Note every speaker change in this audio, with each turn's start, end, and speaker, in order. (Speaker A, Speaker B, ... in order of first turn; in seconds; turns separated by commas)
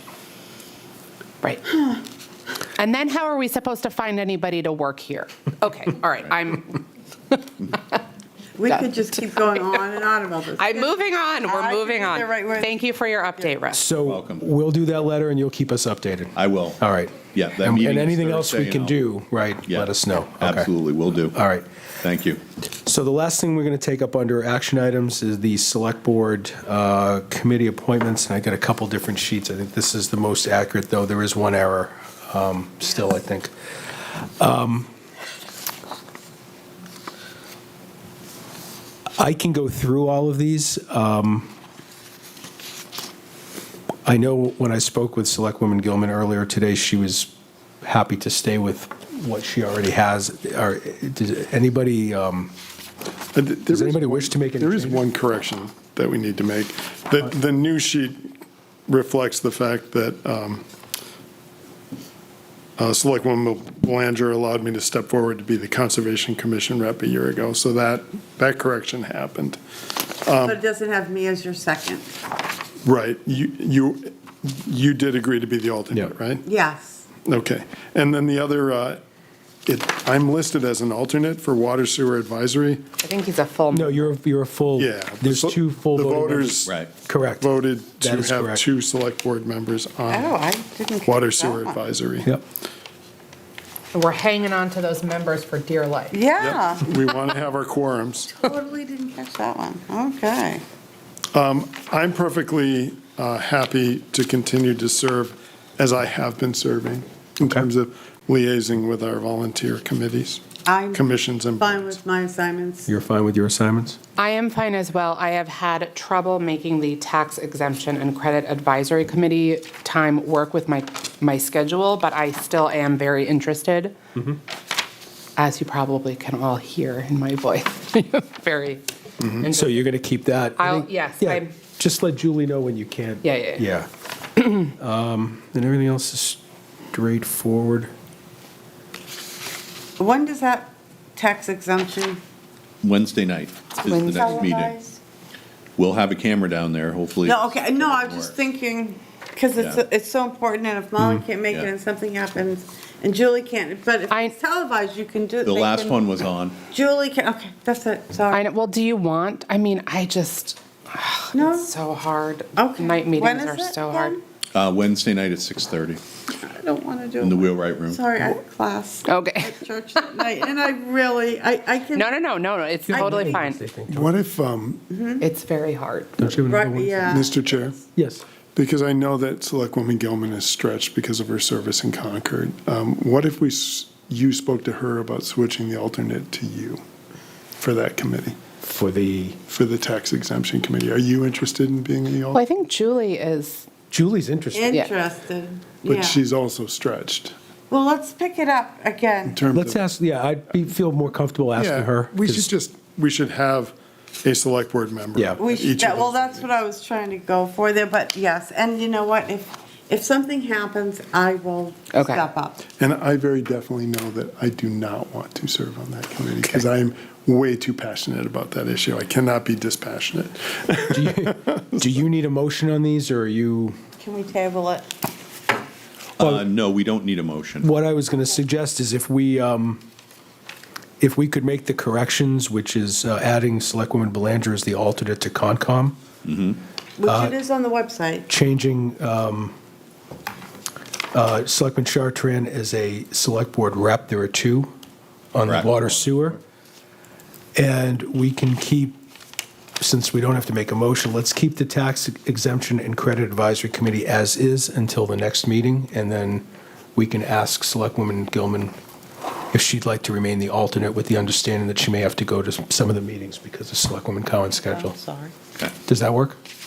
Speaker A: 1.4-1.7, Speaker A: 2.8-8.0, Speaker B: 8.6-12.8, Speaker A: 8.7-9.8, Speaker A: 10.6-13.9, Speaker C: 13.7-20.7, Speaker D: 14.0-14.5, Speaker D: 16.4-16.8, Speaker D: 17.3-19.0, Speaker D: 19.6-21.4, Speaker C: 21.3-21.7, Speaker D: 22.0-22.4, Speaker C: 22.8-34.9, Speaker C: 39.2-41.5, Speaker C: 44.0-47.3, Speaker C: 47.8-52.5, Speaker E: 53.3-58.3, Speaker C: 53.7-55.0, Speaker E: 58.9-60.6, Speaker E: 62.8-69.6, Speaker E: 70.2-70.6, Speaker B: 70.4-72.0, Speaker E: 72.8-76.4, Speaker B: 76.4-77.1, Speaker E: 77.2-79.0, Speaker E: 79.7-82.8, Speaker A: 83.0-84.2, Speaker C: 83.7-87.5, Speaker E: 84.8-86.8, Speaker E: 87.4-90.4, Speaker C: 88.0-88.6, Speaker B: 90.1-91.8, Speaker E: 91.0-92.3, Speaker A: 93.9-96.2, Speaker B: 96.1-96.9, Speaker E: 96.4-98.4, Speaker B: 98.4-100.6, Speaker E: 101.3-112.0, Speaker B: 110.6-111.0, Speaker B: 111.6-112.9, Speaker C: 112.9-114.0, Speaker A: 114.2-123.9, Speaker A: 125.4-128.8, Speaker C: 129.2-136.4, Speaker A: 129.4-129.9, Speaker A: 130.6-131.5, Speaker A: 133.2-133.7, Speaker C: 136.9-137.9, Speaker B: 140.0-142.2, Speaker D: 142.8-144.8, Speaker B: 143.8-145.0, Speaker A: 143.9-144.5, Speaker D: 145.8-148.4, Speaker B: 147.2-158.4, Speaker D: 149.6-149.8, Speaker D: 151.0-151.7, Speaker A: 154.1-154.3, Speaker D: 155.4-156.6, Speaker A: 158.3-164.2, Speaker B: 161.3-161.7, Speaker B: 162.5-164.2, Speaker D: 164.5-166.0, Speaker B: 166.3-172.1, Speaker D: 167.2-168.1, Speaker A: 169.1-169.6, Speaker A: 171.9-173.6, Speaker C: 172.9-174.1, Speaker B: 172.9-173.4, Speaker E: 173.9-174.9, Speaker B: 174.9-175.2, Speaker A: 175.2-176.4, Speaker C: 176.2-177.2, Speaker B: 176.5-177.5, Speaker E: 177.1-177.8, Speaker C: 177.9-178.2, Speaker E: 178.5-186.8, Speaker E: 187.6-188.4, Speaker C: 188.6-189.4, Speaker E: 189.5-192.4, Speaker A: 192.3-193.7, Speaker C: 193.9-194.8, Speaker B: 194.5-196.2, Speaker E: 195.8-197.3, Speaker B: 197.7-199.4, Speaker E: 199.3-199.8, Speaker C: 199.5-202.5, Speaker E: 201.5-206.5, Speaker B: 205.4-212.6, Speaker A: 211.9-212.2, Speaker E: 212.7-222.0, Speaker C: 220.9-223.8, Speaker B: 224.0-224.9, Speaker C: 226.2-226.4, Speaker D: 226.2-227.7, Speaker C: 227.6-229.8, Speaker C: 231.0-235.9, Speaker D: 236.2-236.6, Speaker B: 237.0-238.3, Speaker C: 237.1-237.3, Speaker C: 238.3-239.5, Speaker C: 241.1-244.7, Speaker C: 245.3-246.4, Speaker D: 245.4-246.3, Speaker C: 247.6-249.0, Speaker C: 249.8-258.7, Speaker C: 259.5-265.0, Speaker B: 264.7-265.3, Speaker C: 265.9-266.4